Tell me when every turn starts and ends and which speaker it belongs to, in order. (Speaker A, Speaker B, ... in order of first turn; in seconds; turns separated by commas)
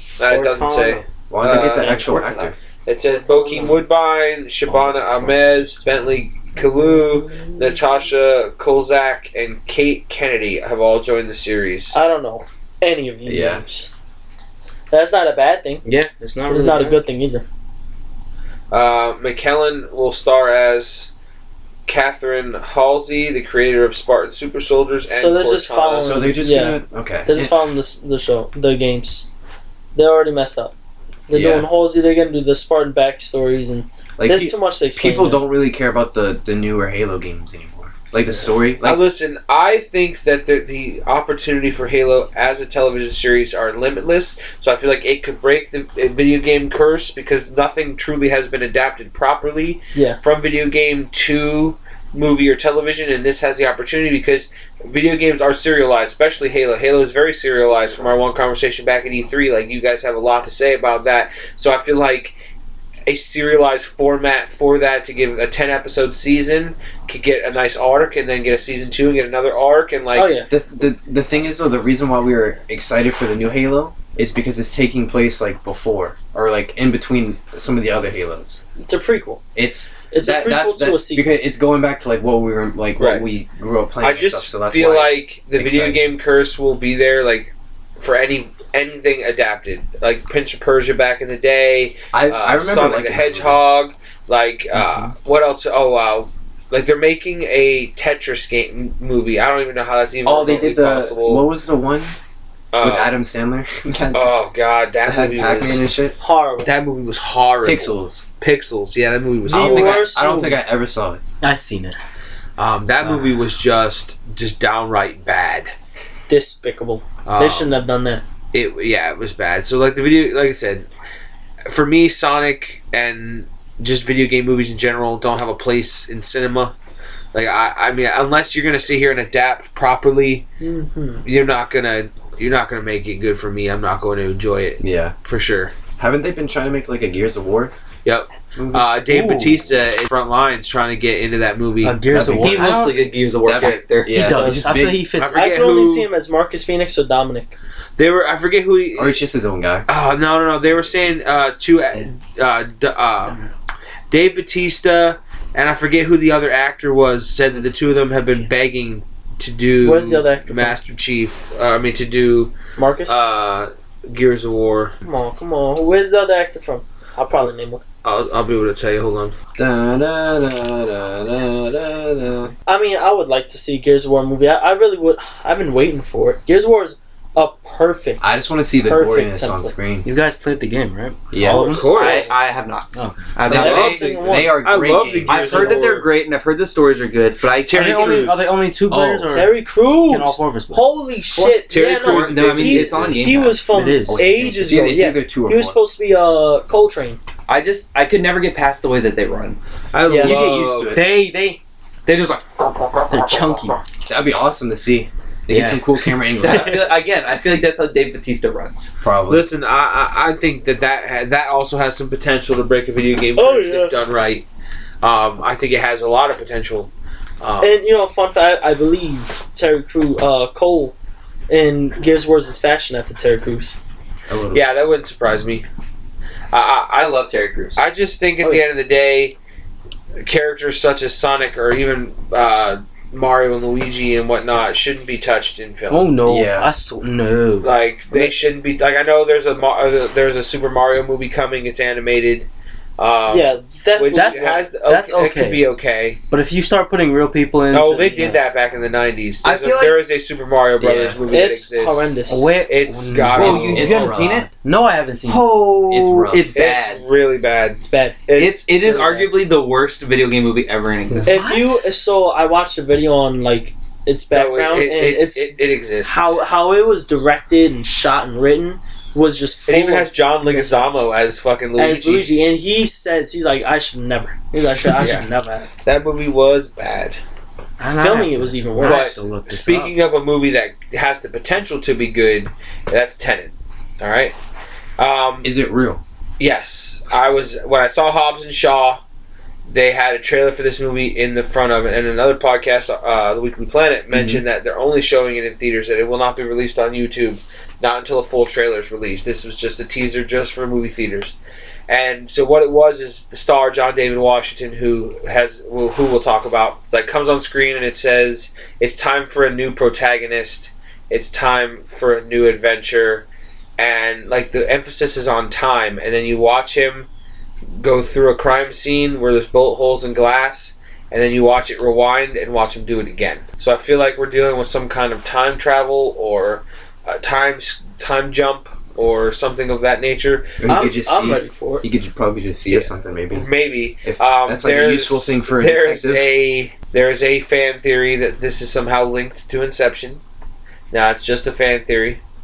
Speaker A: 0.2-2.1, Speaker B: 0.2-1.1, Speaker C: 1.3-2.5, Speaker D: 1.4-2.5, Speaker A: 2.8-12.0, Speaker E: 3.1-3.8, Speaker C: 4.7-5.8, Speaker E: 6.6-7.5, Speaker E: 11.9-13.9, Speaker C: 13.2-13.6, Speaker E: 14.9-15.8, Speaker B: 15.8-17.0, Speaker E: 16.5-17.4, Speaker A: 18.7-21.1, Speaker A: 21.9-26.2, Speaker E: 25.1-29.3, Speaker C: 25.9-27.5, Speaker E: 29.9-30.7, Speaker E: 31.3-35.4, Speaker C: 31.3-31.6, Speaker C: 34.2-39.0, Speaker A: 38.8-62.4, Speaker E: 49.9-50.2, Speaker A: 63.0-70.3, Speaker E: 70.1-70.5, Speaker C: 70.5-78.6, Speaker E: 78.8-79.4, Speaker C: 79.5-86.0, Speaker E: 80.1-81.3, Speaker A: 83.0-83.2, Speaker A: 84.0-101.4, Speaker C: 92.1-93.6, Speaker C: 94.7-95.0, Speaker C: 100.2-102.2, Speaker A: 102.7-103.1, Speaker C: 102.8-104.3, Speaker A: 104.1-105.8, Speaker C: 105.0-106.2, Speaker E: 106.2-106.7, Speaker A: 106.6-110.1, Speaker C: 107.6-108.3, Speaker E: 109.4-110.6, Speaker C: 109.5-111.2, Speaker B: 111.4-112.0, Speaker A: 112.6-115.7, Speaker E: 116.3-118.2, Speaker A: 117.2-117.8, Speaker A: 118.5-120.9, Speaker A: 121.7-126.7, Speaker A: 127.3-130.4, Speaker E: 130.6-131.2, Speaker A: 131.2-135.7, Speaker C: 134.8-135.1, Speaker C: 136.0-137.7, Speaker A: 138.0-142.1, Speaker C: 138.6-139.5, Speaker B: 139.1-139.5, Speaker B: 141.8-143.0, Speaker C: 142.1-142.8, Speaker D: 142.4-144.4, Speaker C: 143.4-145.1, Speaker B: 144.1-145.4, Speaker A: 145.1-146.1, Speaker E: 145.2-147.6, Speaker A: 148.0-149.1, Speaker C: 148.9-149.9, Speaker A: 149.9-153.4, Speaker A: 154.1-162.5, Speaker E: 159.8-160.8, Speaker E: 162.8-163.2, Speaker A: 163.1-164.9, Speaker E: 165.0-167.8, Speaker A: 168.0-169.3, Speaker C: 169.5-172.5, Speaker E: 172.7-178.2, Speaker C: 178.2-180.1, Speaker E: 178.8-179.7, Speaker B: 180.0-182.3, Speaker C: 181.3-181.8, Speaker E: 181.4-182.3, Speaker D: 181.6-184.1, Speaker A: 181.6-182.3, Speaker B: 182.9-183.3, Speaker C: 183.4-185.8, Speaker E: 183.5-184.6, Speaker A: 183.5-186.1, Speaker D: 185.2-188.3, Speaker A: 187.7-188.5, Speaker B: 187.7-190.8, Speaker C: 188.9-189.3, Speaker E: 189.2-197.2, Speaker D: 191.4-193.6, Speaker A: 191.7-192.4, Speaker B: 192.0-194.2, Speaker C: 194.1-195.8, Speaker D: 197.5-199.6, Speaker A: 199.9-200.9, Speaker E: 200.1-200.4, Speaker C: 200.2-201.1, Speaker B: 200.9-201.6, Speaker D: 202.1-203.8, Speaker B: 203.1-203.8, Speaker C: 204.1-206.9, Speaker B: 205.5-205.9, Speaker D: 206.4-208.9, Speaker B: 206.4-206.7, Speaker C: 209.0-209.5, Speaker A: 209.3-214.4, Speaker E: 213.3-213.9, Speaker A: 215.0-216.9, Speaker A: 217.4-217.8, Speaker E: 217.6-220.9, Speaker E: 221.5-223.8, Speaker C: 224.3-224.6, Speaker A: 224.5-225.7, Speaker A: 226.5-227.2, Speaker D: 226.9-227.8, Speaker A: 227.8-229.3, Speaker A: 230.2-236.2, Speaker B: 235.9-237.8, Speaker C: 236.2-236.7, Speaker A: 237.6-242.5, Speaker A: 243.0-246.2, Speaker E: 243.3-244.7, Speaker B: 244.1-245.7, Speaker B: 246.3-248.4, Speaker A: 247.7-254.2, Speaker D: 249.4-250.0, Speaker C: 250.8-251.2, Speaker E: 251.3-252.6, Speaker B: 252.3-255.6, Speaker C: 253.1-254.5, Speaker D: 253.3-254.5, Speaker D: 255.2-257.0, Speaker C: 255.9-256.4, Speaker A: 256.5-259.3, Speaker E: 257.8-258.2, Speaker D: 258.4-261.5, Speaker B: 261.2-261.9, Speaker E: 261.3-271.1, Speaker A: 264.3-266.4, Speaker A: 269.7-272.3, Speaker E: 271.8-275.7, Speaker A: 274.9-275.2, Speaker A: 275.8-277.2, Speaker B: 277.8-279.9, Speaker E: 277.9-279.2, Speaker A: 278.8-284.3, Speaker A: 285.0-285.5, Speaker C: 285.4-286.0, Speaker A: 286.4-289.0, Speaker A: 289.7-301.4, Speaker C: 294.1-294.4, Speaker A: 301.9-313.2, Speaker A: 313.8-317.1, Speaker A: 317.8-330.7, Speaker C: 330.6-333.5, Speaker E: 330.6-331.8, Speaker A: 332.7-340.2, Speaker C: 334.0-336.3, Speaker A: 340.9-342.2